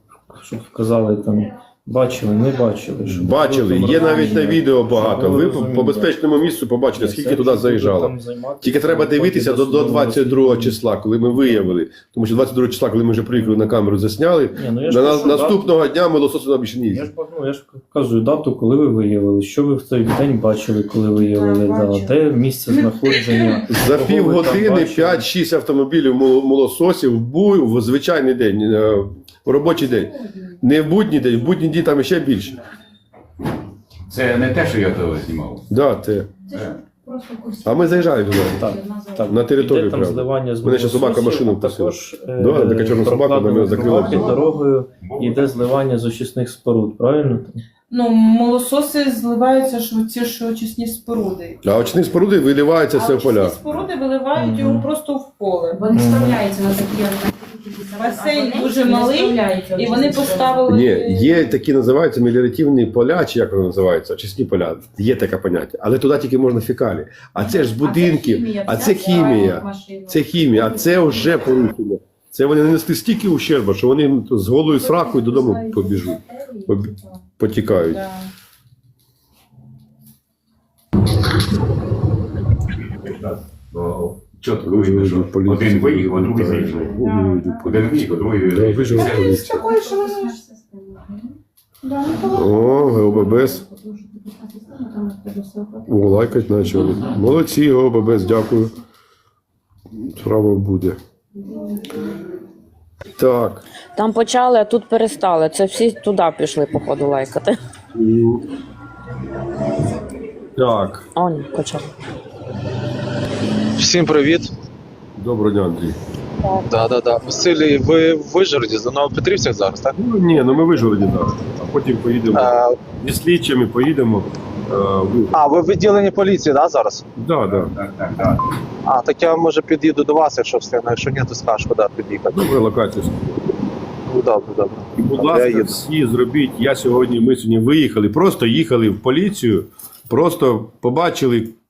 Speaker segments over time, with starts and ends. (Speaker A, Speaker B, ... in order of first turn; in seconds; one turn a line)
Speaker A: 0.3-6.2
Speaker B: 3.0-17.1
Speaker A: 6.9-10.8
Speaker A: 13.4-13.7
Speaker A: 14.5-15.8
Speaker A: 16.9-25.3
Speaker C: 21.2-23.7
Speaker B: 23.7-32.6
Speaker D: 29.6-30.6
Speaker E: 34.1-35.7
Speaker B: 35.7-36.3
Speaker D: 36.5-39.5
Speaker E: 36.5-36.8
Speaker B: 37.6-38.7
Speaker A: 38.6-47.6
Speaker B: 39.2-44.3
Speaker E: 43.7-45.8
Speaker C: 47.9-51.6
Speaker B: 51.6-53.6
Speaker C: 52.9-55.8
Speaker A: 54.4-54.9
Speaker D: 55.7-60.8
Speaker A: 55.9-56.4
Speaker C: 58.0-61.5
Speaker B: 60.7-78.0
Speaker D: 67.6-71.7
Speaker D: 74.7-77.3
Speaker C: 77.7-78.3
Speaker E: 82.9-87.0
Speaker B: 84.6-89.5
Speaker C: 87.0-87.6
Speaker E: 87.6-89.5
Speaker C: 89.0-90.4
Speaker D: 89.0-91.4
Speaker C: 91.8-92.7
Speaker D: 92.1-97.2
Speaker B: 92.3-93.6
Speaker B: 95.9-98.7
Speaker B: 100.0-101.0
Speaker D: 101.3-102.1
Speaker B: 103.2-103.7
Speaker F: 104.0-107.6
Speaker B: 107.9-108.4
Speaker B: 110.6-111.1
Speaker F: 111.2-111.9
Speaker G: 113.8-114.5
Speaker B: 115.2-116.0
Speaker G: 116.7-120.0
Speaker B: 119.9-125.3
Speaker G: 122.3-122.8
Speaker G: 125.3-127.0
Speaker B: 127.2-127.7
Speaker E: 127.5-128.5
Speaker G: 128.9-132.6
Speaker B: 132.3-133.4
Speaker G: 134.1-135.8
Speaker B: 135.0-141.6